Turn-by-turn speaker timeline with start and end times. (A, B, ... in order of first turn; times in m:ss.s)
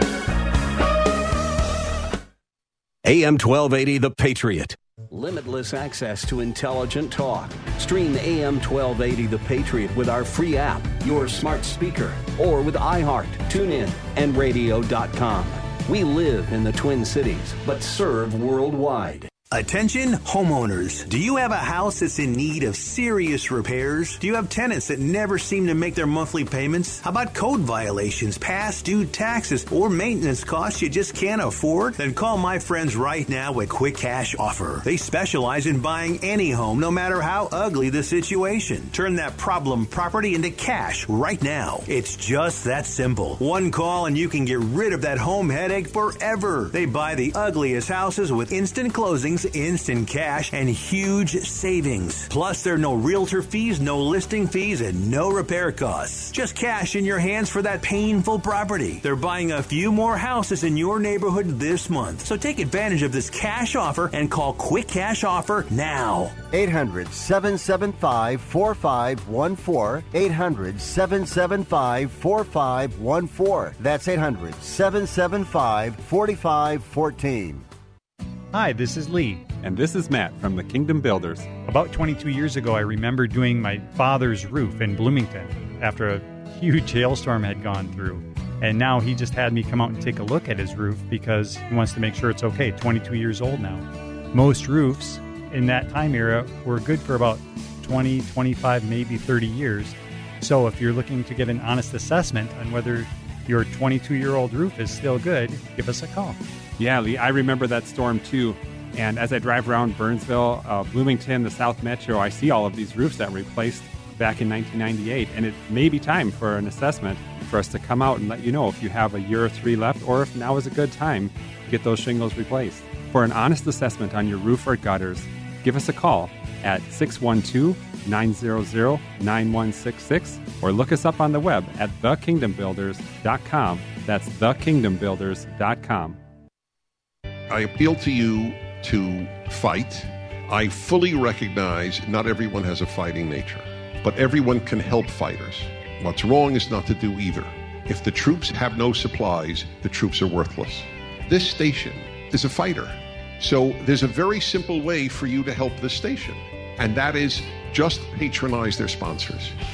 0:03.0-0:19.3 A
0:19.5-1:06.4 B
1:06.5-1:17.6 C
1:18.5-1:19.5 D
1:19.6-1:21.5 E
1:21.6-1:46.4 D
1:46.8-2:16.2 E
2:17.5-2:39.6 F